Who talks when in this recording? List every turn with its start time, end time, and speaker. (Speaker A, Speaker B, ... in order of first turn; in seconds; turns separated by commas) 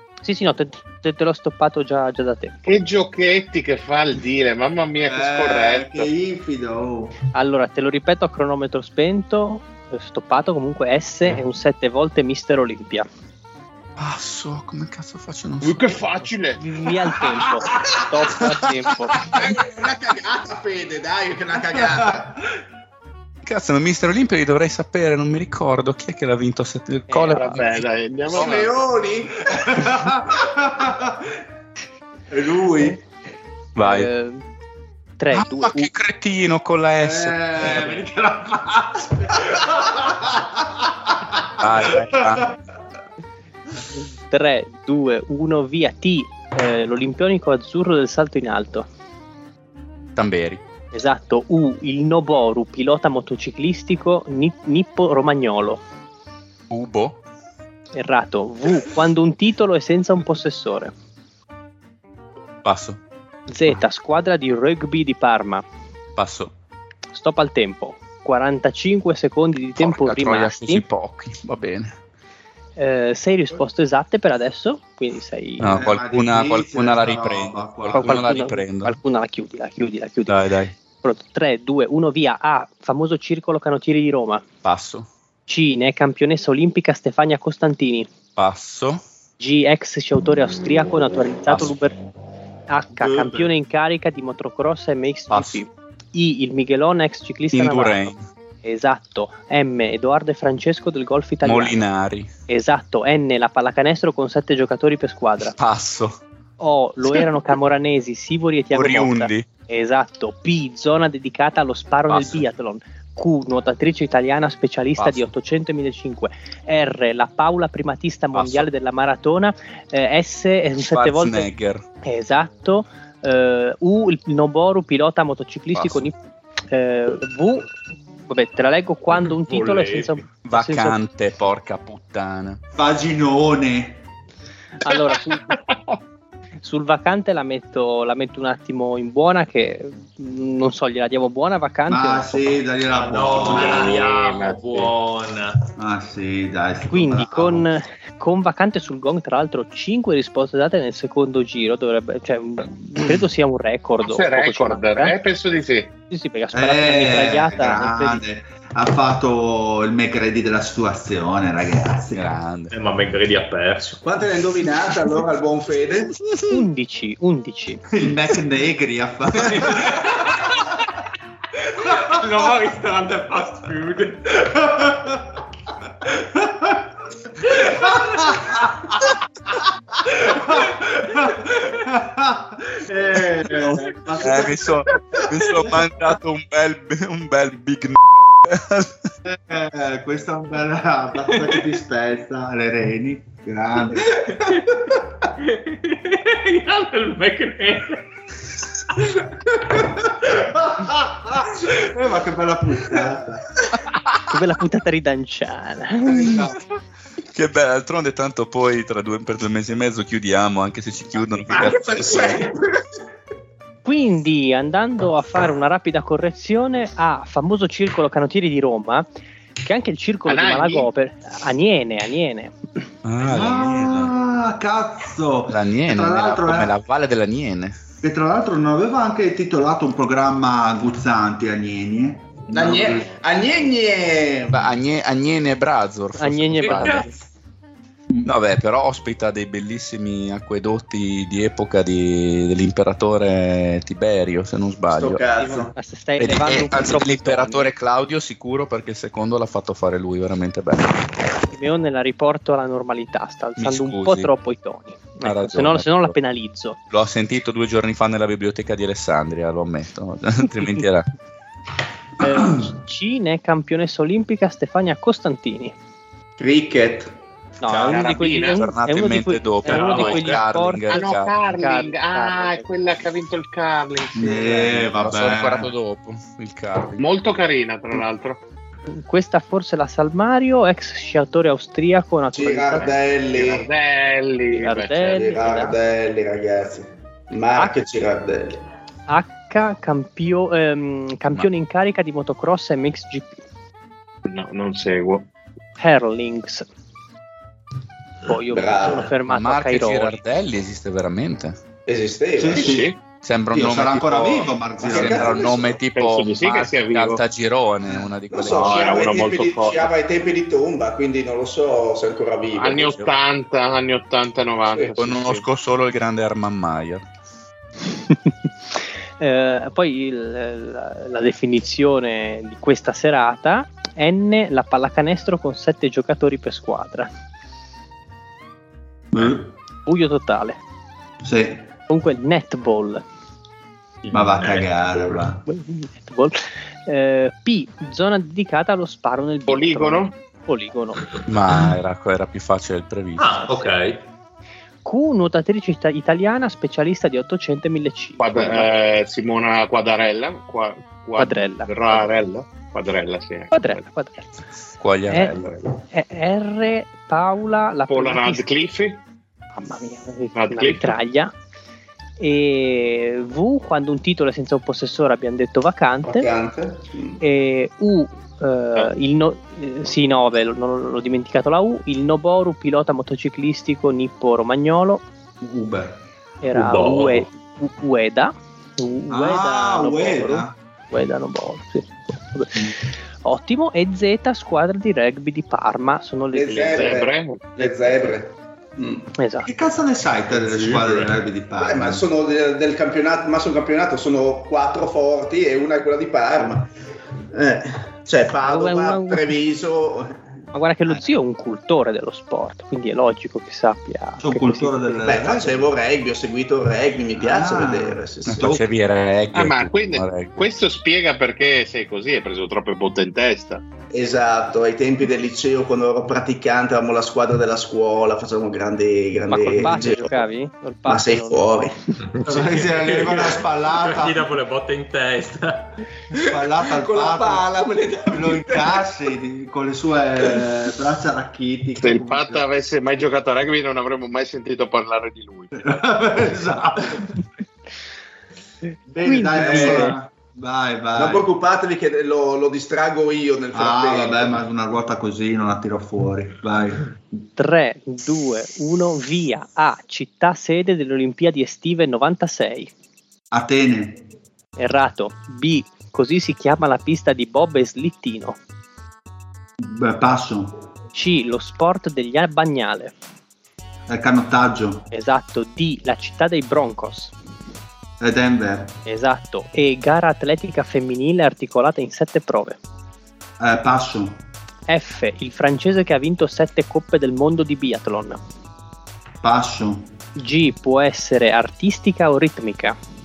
Speaker A: 0.2-2.7, Speaker B: 2.6-6.1, Speaker C: 5.0-7.1, Speaker A: 7.3-13.1, Speaker D: 14.0-16.3, Speaker B: 15.6-16.6, Speaker A: 16.6-19.2, Speaker E: 19.3-22.4, Speaker C: 21.7-22.1, Speaker D: 23.4-27.8, Speaker A: 27.1-27.4, Speaker B: 27.3-28.8, Speaker E: 28.3-29.9, Speaker C: 29.5-31.4, Speaker C: 32.3-33.0, Speaker D: 33.8-34.1, Speaker A: 33.8-34.4, Speaker A: 35.2-35.9, Speaker D: 35.3-38.0, Speaker C: 37.0-42.5, Speaker D: 41.6-42.5, Speaker A: 44.3-48.9, Speaker D: 50.1-50.6, Speaker A: 50.9-55.8, Speaker D: 56.7-57.2, Speaker A: 57.9-60.9, Speaker D: 62.6-63.0, Speaker A: 63.5-65.6, Speaker D: 66.2-66.5, Speaker A: 67.1-70.8, Speaker D: 69.8-71.9, Speaker A: 72.8-75.7, Speaker D: 75.6-78.9, Speaker C: 75.7-78.3, Speaker A: 77.9-80.4, Speaker D: 80.3-80.7, Speaker A: 81.0-84.4, Speaker D: 84.6-85.1, Speaker A: 85.5-88.1, Speaker D: 88.3-89.0, Speaker A: 89.4-92.0, Speaker A: 92.7-98.1, Speaker C: 93.0-93.5, Speaker D: 95.3-95.6, Speaker D: 97.5-98.2, Speaker A: 98.6-101.8, Speaker D: 101.4-102.3, Speaker A: 102.5-105.5, Speaker D: 105.5-106.2, Speaker A: 106.6-121.5, Speaker D: 108.7-109.5, Speaker D: 112.1-112.4, Speaker D: 115.0-115.3, Speaker D: 118.3-118.7, Speaker D: 120.8-121.8, Speaker A: 122.0-126.1, Speaker D: 125.7-126.1, Speaker A: 126.7-127.7, Speaker A: 128.3-131.0, Speaker F: 129.2-130.2, Speaker D: 130.4-132.6, Speaker C: 132.8-134.0, Speaker A: 134.8-135.5, Speaker B: 135.1-135.9, Speaker A: 136.6-142.6, Speaker C: 141.9-144.0, Speaker F: 142.9-145.6, Speaker B: 143.1-144.9, Speaker C: 145.8-147.7, Speaker A: 146.9-155.1, Speaker B: 154.0-155.9, Speaker A: 156.1-158.2, Speaker C: 156.5-162.3, Speaker D: 162.1-162.7, Speaker F: 162.7-164.0, Speaker E: 164.0-166.2, Speaker D: 166.2-166.6, Speaker A: 166.5-167.8, Speaker C: 167.9-170.1, Speaker F: 169.5-170.8, Speaker F: 171.6-174.5, Speaker C: 174.5-175.2, Speaker C: 176.0-176.9, Speaker F: 177.5-178.3, Speaker C: 177.6-178.9, Speaker C: 180.1-184.8, Speaker D: 183.5-189.1, Speaker C: 189.2-194.7, Speaker F: 191.3-191.6, Speaker F: 194.2-194.8, Speaker F: 195.4-198.1, Speaker C: 200.3-203.5, Speaker A: 204.3-206.5, Speaker D: 206.2-206.5, Speaker D: 207.3-212.5, Speaker E: 211.5-212.8, Speaker A: 213.8-219.1, Speaker A: 219.6-222.8, Speaker B: 220.2-220.9, Speaker D: 223.0-224.1, Speaker C: 223.2-226.7, Speaker D: 225.5-227.8, Speaker C: 228.0-233.1, Speaker E: 232.5-234.7, Speaker D: 234.5-237.1, Speaker A: 236.2-237.1, Speaker F: 236.7-237.0, Speaker D: 238.2-245.2, Speaker E: 244.9-245.7, Speaker A: 245.4-247.7, Speaker D: 246.2-251.1, Speaker A: 251.5-256.8, Speaker D: 253.6-254.3, Speaker D: 255.2-256.1, Speaker D: 256.9-261.1, Speaker A: 262.2-265.7, Speaker E: 266.4-267.1, Speaker A: 267.6-272.6, Speaker B: 267.7-268.7, Speaker D: 268.5-271.3, Speaker F: 269.6-270.4, Speaker B: 270.9-274.8, Speaker C: 274.1-275.7, Speaker D: 274.8-277.0, Speaker B: 277.0-278.4, Speaker A: 278.9-282.9, Speaker E: 282.3-283.7, Speaker B: 282.8-285.2, Speaker A: 284.5-285.7, Speaker E: 285.1-288.6, Speaker A: 289.1-293.4, Speaker B: 294.2-295.3, Speaker A: 295.8-296.6, Speaker A: 298.2-300.2, Speaker E: 298.5-299.1, Speaker D: 299.2-301.6, Speaker E: 301.9-302.8, Speaker C: 302.4-302.9, Speaker B: 302.6-303.0, Speaker D: 303.1-309.2, Speaker C: 303.5-305.5, Speaker E: 304.8-305.8, Speaker B: 305.9-307.2, Speaker E: 308.3-313.0, Speaker B: 308.5-309.9, Speaker B: 312.5-315.4, Speaker D: 315.0-317.0, Speaker A: 319.2-327.1, Speaker C: 329.1-329.4, Speaker A: 329.9-330.6, Speaker C: 331.2-331.7, Speaker A: 331.9-333.0, Speaker F: 334.0-334.8, Speaker C: 334.1-335.4, Speaker A: 335.4-341.1, Speaker B: 339.5-340.1, Speaker D: 341.3-343.3, Speaker F: 343.2-344.0, Speaker A: 344.8-348.7, Speaker B: 348.2-353.8, Speaker A: 351.2-352.0, Speaker A: 353.5-354.3, Speaker D: 354.8-355.7, Speaker A: 355.1-355.4, Speaker A: 355.9-358.4, Speaker B: 357.9-359.0, Speaker A: 359.6-361.3, Speaker B: 360.3-361.0, Speaker A: 362.2-366.3, Speaker E: 366.1-367.2, Speaker A: 367.2-375.0, Speaker C: 375.4-376.0, Speaker A: 376.4-386.9, Speaker F: 376.5-377.3, Speaker C: 379.1-380.5, Speaker E: 386.3-389.1, Speaker B: 386.5-387.5, Speaker A: 389.2-389.5, Speaker C: 389.4-392.0, Speaker E: 391.6-396.7, Speaker E: 397.3-400.2, Speaker A: 398.4-399.3, Speaker A: 400.5-405.0, Speaker C: 404.2-405.7, Speaker E: 405.0-408.5, Speaker C: 407.2-408.6, Speaker D: 408.3-410.4, Speaker B: 409.3-413.6, Speaker E: 413.9-420.2, Speaker A: 419.3-421.4, Speaker C: 419.6-420.0, Speaker E: 420.9-421.8, Speaker F: 422.1-425.8, Speaker C: 422.2-424.3, Speaker C: 426.2-427.5, Speaker E: 426.7-428.8, Speaker C: 428.1-432.5, Speaker B: 431.8-435.6, Speaker C: 435.5-437.2, Speaker C: 438.9-441.3, Speaker A: 439.0-439.9, Speaker E: 439.4-439.9, Speaker E: 440.9-444.4, Speaker C: 443.5-446.9, Speaker A: 447.4-452.7, Speaker C: 453.3-454.0, Speaker A: 454.6-458.4, Speaker C: 459.6-460.5, Speaker A: 460.9-462.9, Speaker C: 463.9-464.9, Speaker A: 464.9-467.1, Speaker C: 468.0-468.8, Speaker A: 468.9-472.6, Speaker C: 473.4-474.2, Speaker A: 474.7-478.2, Speaker C: 479.2-479.9, Speaker A: 480.1-482.8